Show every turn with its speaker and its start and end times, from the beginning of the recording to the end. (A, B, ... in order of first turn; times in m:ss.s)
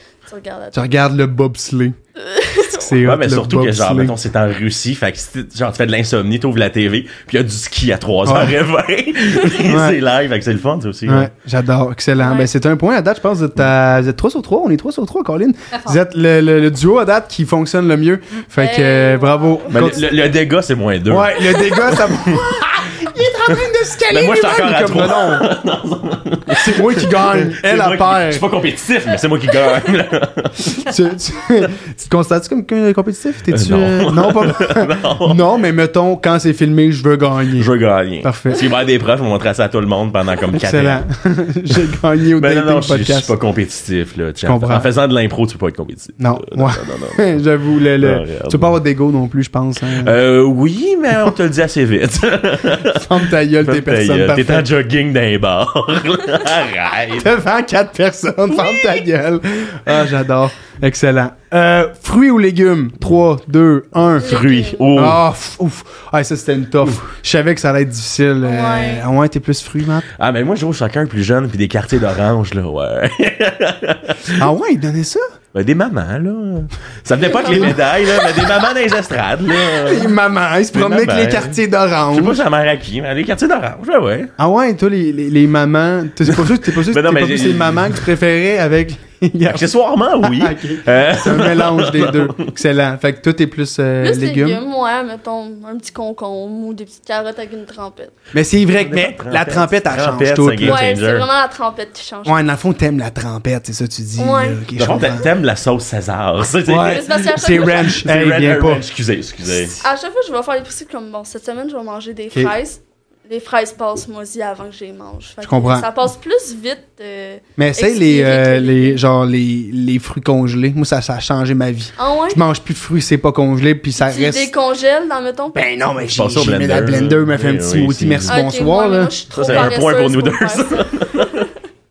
0:00.2-0:00.8 A
0:00.7-0:02.0 B
0:02.2-0:02.9 A
0:02.7-0:04.2 B
0:03.0-0:11.3 C
0:08.2-0:08.6 B
0:09.6-0:10.0 B
0:11.1-0:20.0 B
0:12.2-0:12.5 A
0:18.6-0:20.0 A
0:19.7-0:22.6 C
0:21.1-0:25.5 B
0:23.5-0:30.8 C
0:26.5-0:28.4 B
0:30.8-0:37.7 B
0:33.5-0:35.4 C
0:37.6-0:41.0 C
0:38.2-0:38.6 B
0:40.5-0:43.3 B
0:42.4-0:47.4 C
0:44.4-0:44.9 B
0:46.2-0:50.2 B
0:48.0-0:48.7 C
0:50.0-0:57.3 C
0:52.9-0:54.7 B
0:57.2-1:04.4 B
1:04.2-1:05.2 C
1:04.2-1:04.8 A
1:04.9-1:10.1 B
1:08.4-1:09.1 A
1:10.2-1:14.4 C
1:14.4-1:15.3 B
1:15.5-1:20.1 C
1:17.3-1:17.7 A
1:17.4-1:17.8 B
1:19.6-1:22.4 B
1:20.7-1:21.6 C
1:22.1-1:24.3 C
1:24.4-1:34.6 B
1:26.2-1:28.1 C
1:29.5-1:32.4 C
1:34.0-1:38.1 A
1:38.3-1:40.8 B
1:38.8-1:41.3 C
1:40.6-1:42.4 A
1:42.2-1:45.3 B
1:44.2-1:44.6 A
1:44.8-1:49.7 C
1:46.6-1:48.8 B
1:46.8-1:48.0 A
1:49.8-1:59.0 A
1:55.4-1:55.9 B
1:57.6-2:04.5 B
2:02.0-2:02.4 A
2:04.0-2:05.7 A
2:05.5-2:09.7 B
2:06.1-2:08.4 C
2:08.3-2:11.4 A
2:09.3-2:11.5 C